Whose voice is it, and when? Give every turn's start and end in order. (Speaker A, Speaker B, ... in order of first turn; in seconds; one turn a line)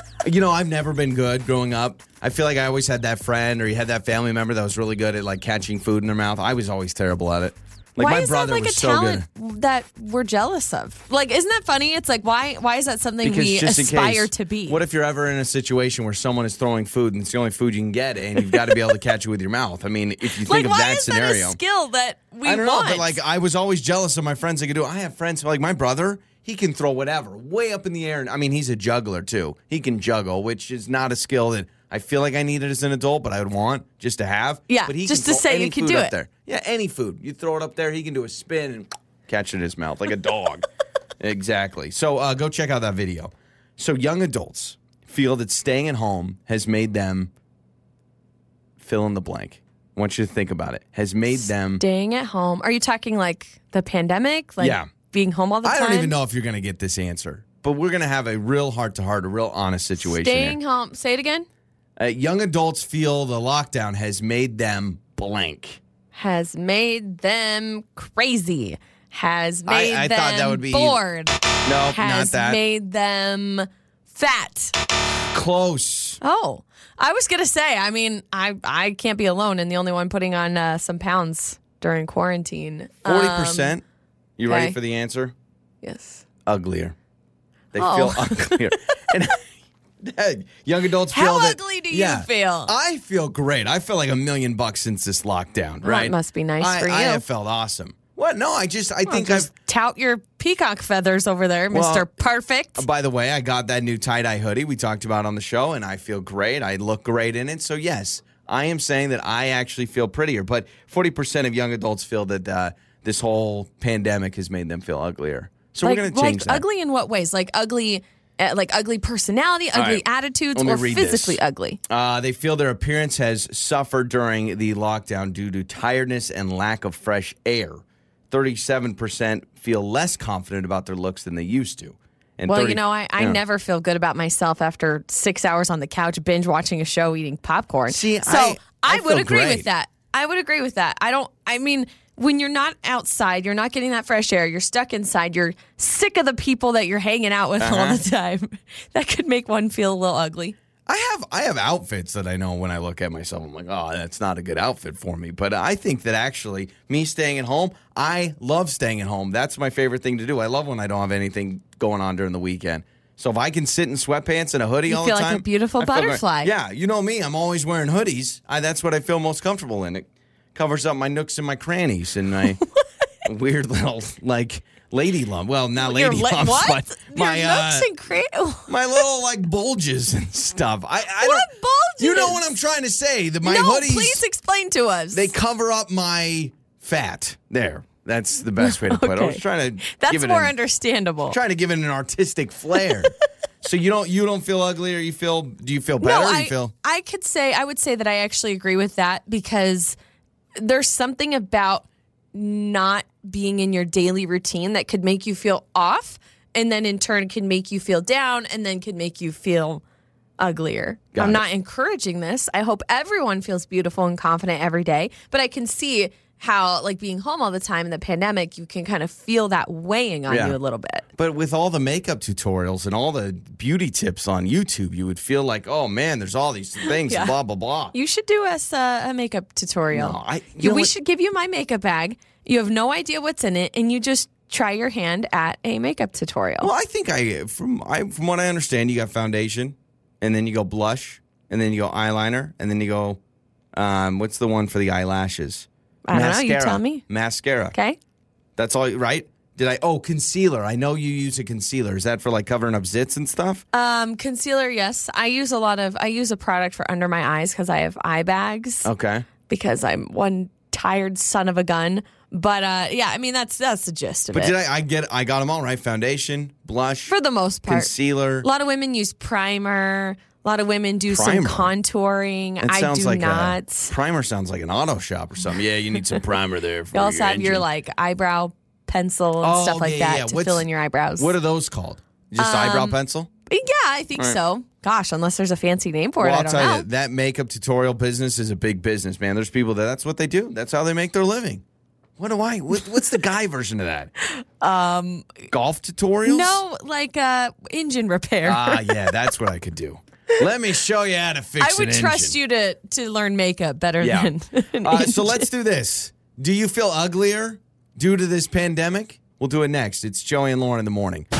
Speaker A: 0.2-9.2
Speaker B: 8.0-14.8
Speaker A: 13.2-21.6
Speaker B: 20.4-23.2
Speaker A: 22.4-40.6
Speaker B: 34.7-36.1
Speaker A: 41.2-47.3
Speaker A: 48.8-51.8
Speaker B: 51.8-56.1
Speaker A: 54.6-54.9
Speaker A: 55.6-60.6
Speaker B: 60.0-61.5
Speaker A: 62.0-65.8
Speaker B: 66.1-71.3
Speaker A: 69.7-71.0
Speaker A: 71.7-72.6
Speaker B: 71.9-74.7
Speaker A: 75.3-76.2
Speaker B: 76.2-83.7
Speaker A: 83.0-83.8
Speaker A: 84.4-85.3
Speaker B: 84.5-84.8
Speaker B: 85.8-86.2
Speaker A: 86.5-86.9
Speaker A: 87.7-89.4
Speaker B: 87.8-89.0
Speaker A: 90.0-99.5
Speaker B: 91.1-92.7
Speaker B: 95.8-97.2
Speaker B: 99.1-102.8
Speaker A: 101.7-102.1
Speaker A: 102.8-116.6
Speaker B: 115.8-121.8
Speaker A: 119.7-120.0
Speaker A: 120.5-121.4
Speaker A: 121.9-133.4
Speaker B: 132.5-150.6
Speaker A: 137.9-139.7
Speaker A: 147.6-148.0
Speaker A: 150.9-172.6
Speaker B: 164.9-166.5
Speaker A: 173.2-177.9
Speaker B: 175.8-179.0
Speaker A: 178.7-181.5
Speaker B: 181.2-182.4
Speaker A: 182.0-184.2
Speaker B: 183.4-185.3
Speaker A: 185.1-190.5
Speaker B: 188.6-191.4
Speaker A: 191.3-196.7
Speaker B: 192.8-193.1
Speaker B: 196.0-199.9
Speaker B: 200.6-209.8
Speaker B: 210.4-221.1
Speaker A: 211.1-211.4
Speaker A: 220.3-220.6
Speaker A: 221.2-227.9
Speaker B: 226.8-227.3
Speaker B: 227.9-236.7
Speaker A: 229.9-230.9
Speaker A: 236.6-243.2
Speaker A: 243.7-247.7
Speaker B: 246.1-247.1
Speaker B: 247.7-248.0
Speaker A: 248.6-253.6
Speaker B: 253.7-258.9
Speaker A: 258.8-259.3
Speaker B: 259.5-264.5
Speaker A: 264.3-267.1
Speaker B: 267.1-273.9
Speaker A: 267.6-268.4
Speaker A: 271.1-271.7
Speaker A: 272.6-277.6
Speaker B: 276.9-281.3
Speaker A: 279.4-280.6
Speaker A: 281.2-283.3
Speaker B: 282.4-286.9
Speaker A: 286.2-291.6
Speaker A: 292.2-294.1
Speaker B: 294.2-295.4
Speaker A: 295.5-296.6
Speaker B: 296.2-299.1
Speaker A: 298.4-302.3
Speaker B: 301.6-305.5
Speaker A: 304.0-304.3
Speaker A: 304.8-311.3